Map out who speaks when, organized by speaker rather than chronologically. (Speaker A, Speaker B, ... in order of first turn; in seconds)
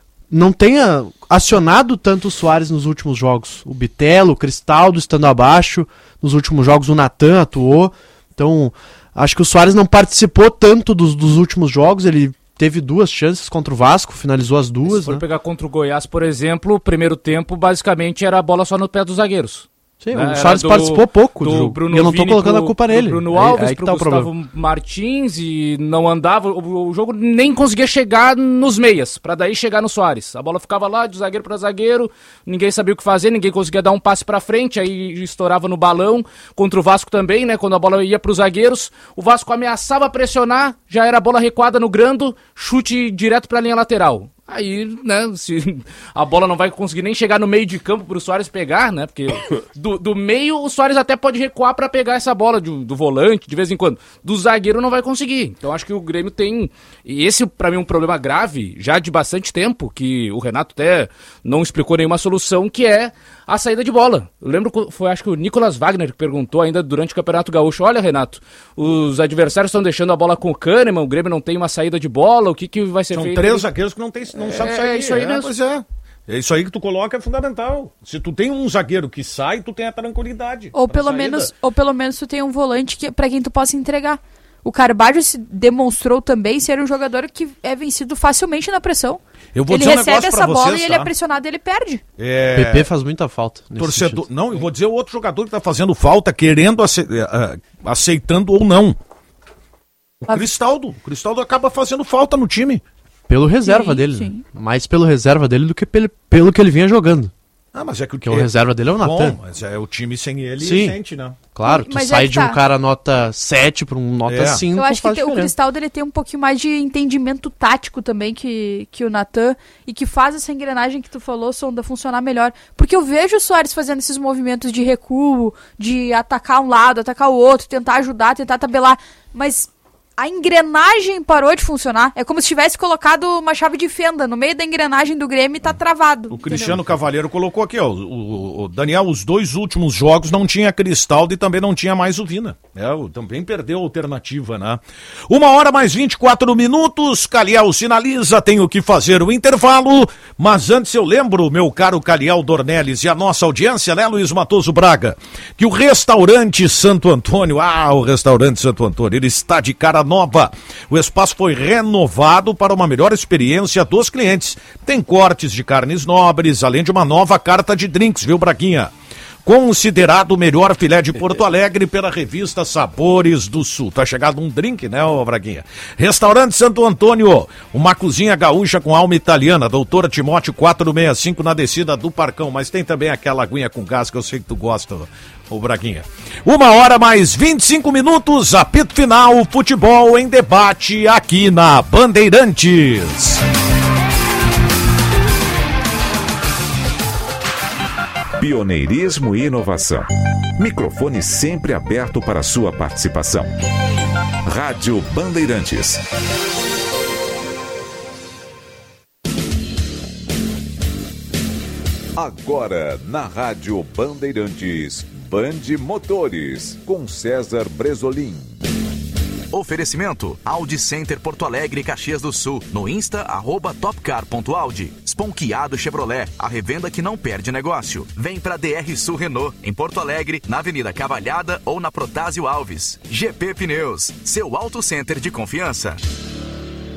Speaker A: 0.3-15.2, 20.0-24.3, 92.5-94.3, 103.3-107.3, 108.2-109.4, 110.6-111.0, 111.5-115.5
Speaker B: 14.8-73.7, 74.3-75.5
Speaker C: 73.1-81.5, 89.5-91.1, 92.2-92.9, 93.8-99.0, 100.2-102.8, 107.7-111.4, 114.2-114.6, 136.3-168.9, 169.4-193.4
Speaker D: 80.7-92.0, 103.6-104.4, 111.6-112.6, 114.7-136.8
Speaker E: 198.4-203.5, 204.4-206.0, 212.2-218.5
Speaker F: 219.5-236.0